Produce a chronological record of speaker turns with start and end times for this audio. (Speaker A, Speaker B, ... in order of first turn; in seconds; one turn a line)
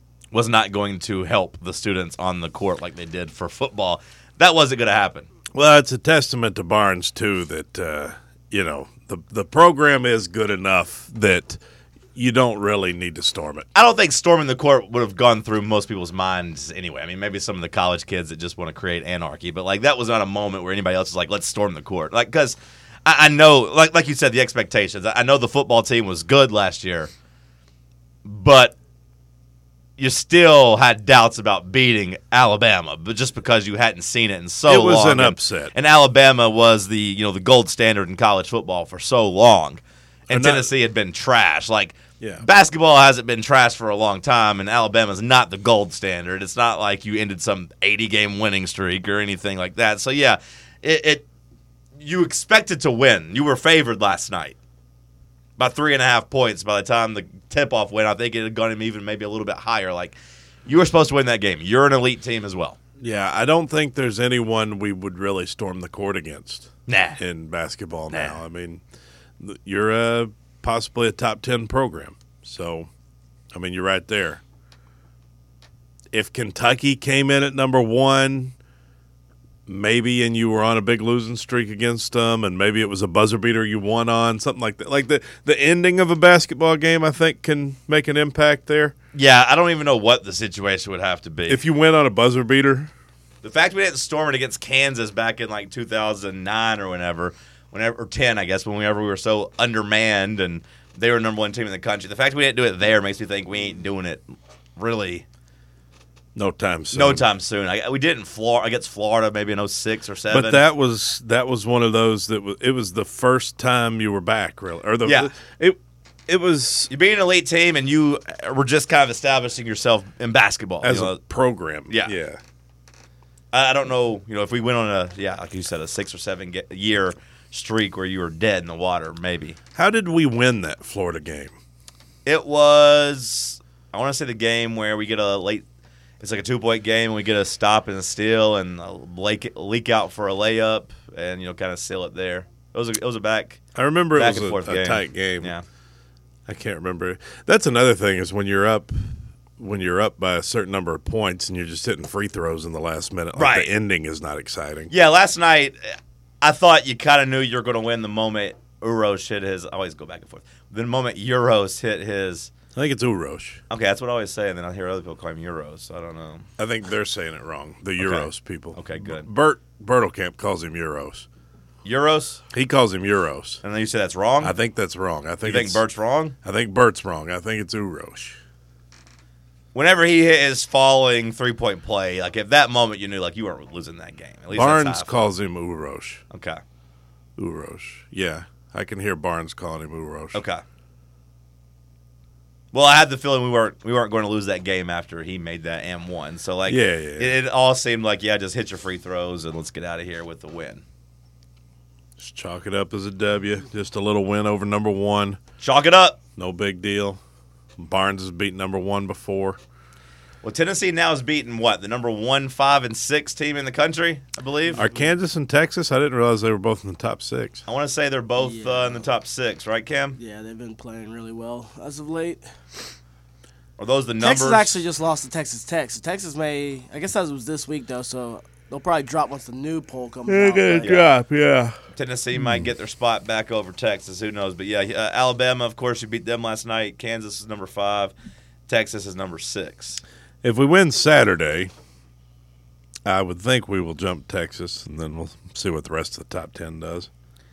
Speaker A: 0.3-5.3
Speaker B: 5.5-11.6
Speaker B: 12.2-13.7
Speaker A: 13.7-27.1
Speaker A: 28.2-28.8
Speaker A: 30.0-51.2
Speaker B: 34.7-35.7
Speaker B: 40.3-40.7
Speaker B: 42.2-42.5
Speaker A: 52.0-54.6
Speaker A: 55.6-60.1
Speaker A: 60.7-62.8
Speaker B: 63.0-68.8
Speaker A: 66.9-67.2
Speaker A: 68.1-68.4
Speaker B: 69.4-72.9
Speaker B: 73.5-74.4
Speaker B: 76.1-78.5
Speaker B: 79.7-88.9
Speaker A: 89.1-91.6
Speaker B: 91.5-92.9
Speaker A: 93.4-104.2
Speaker A: 104.8-105.2
Speaker B: 106.3-107.2
Speaker A: 106.9-110.6
Speaker B: 110.3-116.9
Speaker A: 115.0-115.3
Speaker A: 116.9-121.2
Speaker B: 120.8-122.4
Speaker A: 121.9-122.2
Speaker A: 123.5-129.6
Speaker B: 129.8-131.6
Speaker A: 132.2-135.7
Speaker A: 136.2-143.6
Speaker B: 143.8-145.5
Speaker A: 144.2-145.6
Speaker B: 146.5-154.9
Speaker A: 153.4-153.7
Speaker A: 154.9-155.8
Speaker A: 156.4-162.5
Speaker B: 162.7-163.6
Speaker A: 163.7-166.5
Speaker B: 166.6-171.3
Speaker A: 168.0-169.3
Speaker A: 171.8-172.4
Speaker B: 172.5-173.6
Speaker A: 173.6-174.6
Speaker B: 174.4-175.8
Speaker A: 175.4-176.3
Speaker B: 176.4-178.4
Speaker A: 179.7-185.2
Speaker B: 184.5-186.2
Speaker A: 186.3-186.6
Speaker B: 187.4-190.4
Speaker A: 190.3-190.6
Speaker A: 192.7-200.8
Speaker B: 196.7-197.3
Speaker B: 202.2-205.4
Speaker A: 205.6-206.2
Speaker B: 206.4-207.2
Speaker B: 207.8-209.6
Speaker A: 210.4-214.9
Speaker C: 214.8-215.1
Speaker B: 214.8-217.6
Speaker A: 217.7-220.2
Speaker C: 218.4-219.1
Speaker C: 220.2-222.4
Speaker A: 223.8-224.8
Speaker C: 224.2-231.0
Speaker B: 230.3-231.8
Speaker A: 230.8-231.1
Speaker A: 231.9-238.1
Speaker B: 232.3-232.7
Speaker A: 238.7-240.0
Speaker B: 240.4-241.7
Speaker B: 243.1-247.1